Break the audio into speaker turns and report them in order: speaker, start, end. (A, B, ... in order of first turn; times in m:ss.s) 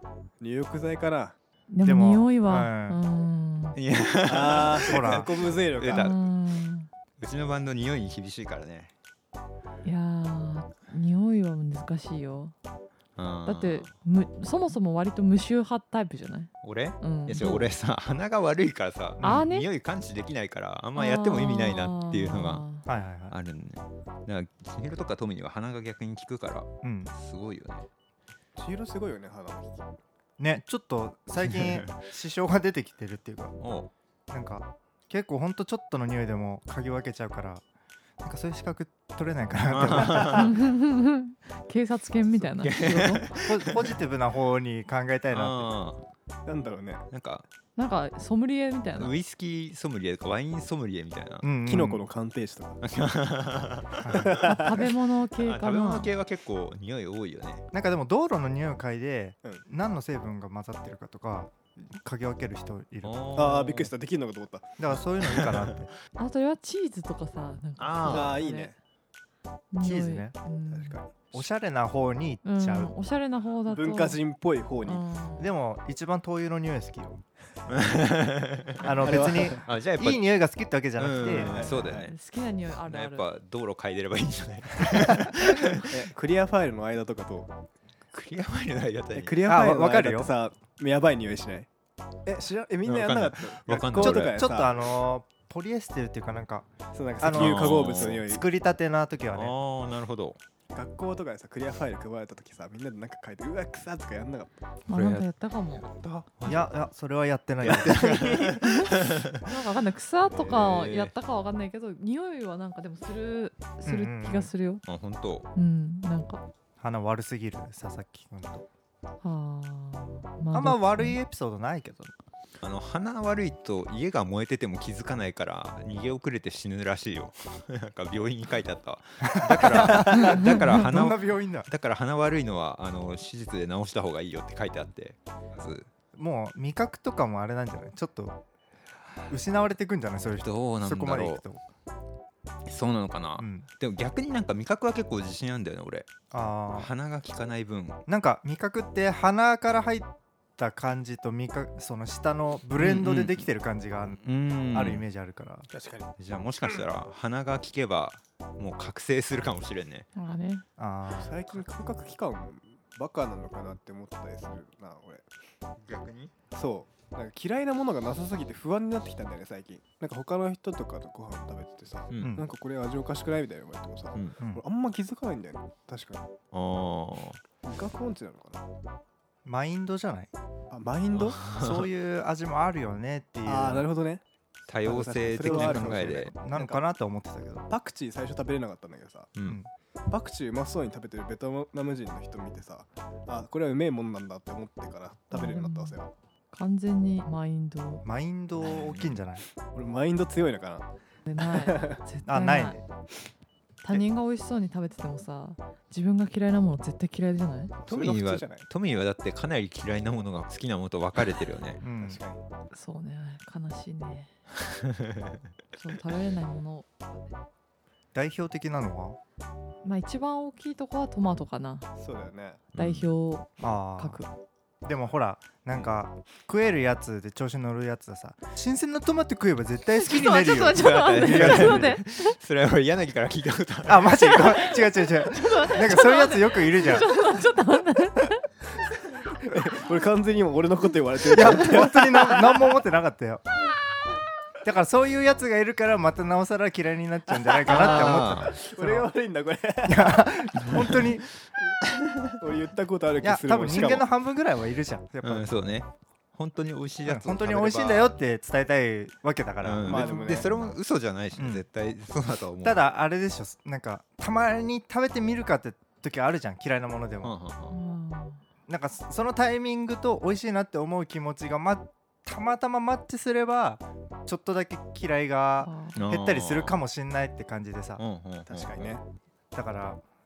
0:00.4-0:01.4 A
0:01.7-0:03.8 B
0:01.8-0:03.0 C
0:03.7-0:06.2 D
0:04.2-0:06.2 A
0:04.8-0:05.3 C
0:05.9-0:06.9 B
0:07.2-0:08.9 D
0:09.8-0:12.5 B
0:13.2-0:13.9 D
0:13.4-0:17.7 B
0:16.6-0:22.6 D
0:19.2-0:19.5 C
0:19.2-0:19.7 B
0:21.0-0:22.8 B
0:22.8-0:23.4 C
0:23.3-0:27.9 D
0:26.8-0:27.1 C
0:28.6-0:29.9 A
0:30.4-0:33.6 C
0:31.5-0:32.0 D
0:33.6-0:33.9 D
0:34.3-0:37.6 C
0:38.2-0:40.5 C
0:39.7-0:40.6 D
0:40.2-0:43.3 B
0:42.6-0:44.0 D
0:43.4-0:45.7 C
0:45.3-0:46.0 D
0:46.4-0:47.0 A
0:47.1-0:47.4 D
0:47.8-0:49.1 B
0:48.9-0:51.5 D
0:51.4-0:52.0 C
0:51.6-0:52.8 A
0:52.8-0:54.7 D
0:54.0-0:54.5 C
0:54.1-0:54.7 A
0:54.4-0:56.1 B
0:55.4-0:57.6 D
0:57.7-1:03.4 C
1:03.0-1:03.9 D
1:03.3-1:04.7 A
1:04.8-1:05.9 C
1:05.2-1:05.8 D
1:06.2-1:08.7 B
1:07.8-1:08.4 D
1:08.0-1:08.8 A
1:09.7-1:11.0 B
1:09.8-1:10.3 C
1:10.7-1:11.2 A
1:11.3-1:12.9 C
1:12.4-1:14.2 B
1:13.7-1:15.0 A
1:14.8-1:15.5 B
1:15.4-1:17.2 C
1:17.7-1:20.3 D
1:18.8-1:21.7 C
1:19.0-1:19.6 A
1:21.0-1:22.2 D
1:21.2-1:22.1 A
1:21.4-1:23.3 B
1:22.8-1:26.0 D
1:25.9-1:27.5 A
1:28.1-1:29.4 D
1:29.1-1:31.7 A
1:29.4-1:30.3 C
1:32.2-1:34.8 A
1:32.8-1:34.4 D
1:34.0-1:39.5 C
1:36.9-1:38.4 A
1:37.3-1:38.2 D
1:39.3-1:40.4 D
1:40.7-1:44.5 A
1:44.9-1:45.3 D
1:44.9-1:45.9 B
1:45.8-1:46.7 D
1:46.4-1:48.5 C
1:47.6-1:49.4 D
1:48.0-1:48.5 A
1:48.5-1:54.8 B
1:50.3-1:51.1 D
1:53.8-1:54.5 C
1:54.8-1:55.5 D
1:55.5-1:56.4 B
1:56.8-1:58.6 C
1:59.2-2:01.2 B
2:00.5-2:02.1 C
2:02.6-2:15.9 D
2:09.2-2:11.7 C
2:16.1-2:18.4 C
2:19.3-2:21.6 C
2:20.3-2:21.4 D
2:22.6-2:26.1 D
2:23.4-2:23.7 C
2:26.3-2:26.9 C
2:26.7-2:28.0 D
2:28.1-2:35.7 C
2:32.8-2:33.5 D
2:34.2-2:35.0 D
2:35.7-2:36.1 A
2:36.2-2:40.1 D
2:40.1-2:40.6 B
2:40.8-2:41.6 C
2:41.1-2:45.2 A
2:45.8-2:46.3 D
2:46.5-2:56.3 A
2:52.1-2:52.4 D
2:52.2-2:52.5 C
2:54.4-2:54.6 C
2:56.5-2:57.4 D
2:57.6-2:58.6 A
2:59.4-3:00.3 C
3:00.7-3:01.4 A
3:01.1-3:01.9 D
3:01.5-3:03.9 C
3:03.4-3:04.2 A
3:04.7-3:06.3 D
3:04.8-3:06.8 A
3:05.4-3:07.7 C
3:07.7-3:09.3 A
3:10.1-3:16.1 A
3:15.3-3:16.0 B
3:16.5-3:18.0 B
3:18.0-3:19.4 C
3:18.6-3:19.2 D
3:19.7-3:20.9 A
3:21.2-3:22.8 B
3:21.5-3:22.0 A
3:22.2-3:22.8 C
3:23.8-3:27.7 B
3:27.8-3:28.6 A
3:27.9-3:31.8 D
3:31.8-3:32.2 C
3:32.0-3:32.4 A
3:32.7-3:34.3 B
3:34.7-3:35.4 D
3:35.8-3:37.3 B
3:38.1-3:39.2 C
3:39.8-3:41.9 B
3:42.0-3:42.7 A
3:42.7-3:43.1 D
3:42.7-3:44.3 B
3:43.6-3:44.2 C
3:44.8-3:52.0 C
3:49.9-3:52.4 B
3:50.7-3:54.8 D
3:53.8-3:57.1 C
3:55.2-3:58.5 B
3:59.4-4:02.7 A
4:01.3-4:03.4 C
4:04.6-4:09.1 C
4:07.4-4:10.2 A
4:07.6-4:08.6 D
4:09.8-4:11.3 C
4:12.4-4:14.1 A
4:13.2-4:15.5 C
4:15.2-4:18.1 D
4:17.0-4:20.3 C
4:19.6-4:22.8 D
4:19.8-4:20.5 A
4:20.3-4:20.7 B
4:21.4-4:21.6 C
4:22.6-4:27.3 C
4:27.2-4:27.8 D
4:27.7-4:28.4 B
4:28.7-4:38.0 C
4:35.6-4:36.0 B
4:35.9-4:36.8 D
4:38.0-4:39.0 D
4:38.5-4:39.0 A
4:39.5-4:40.0 C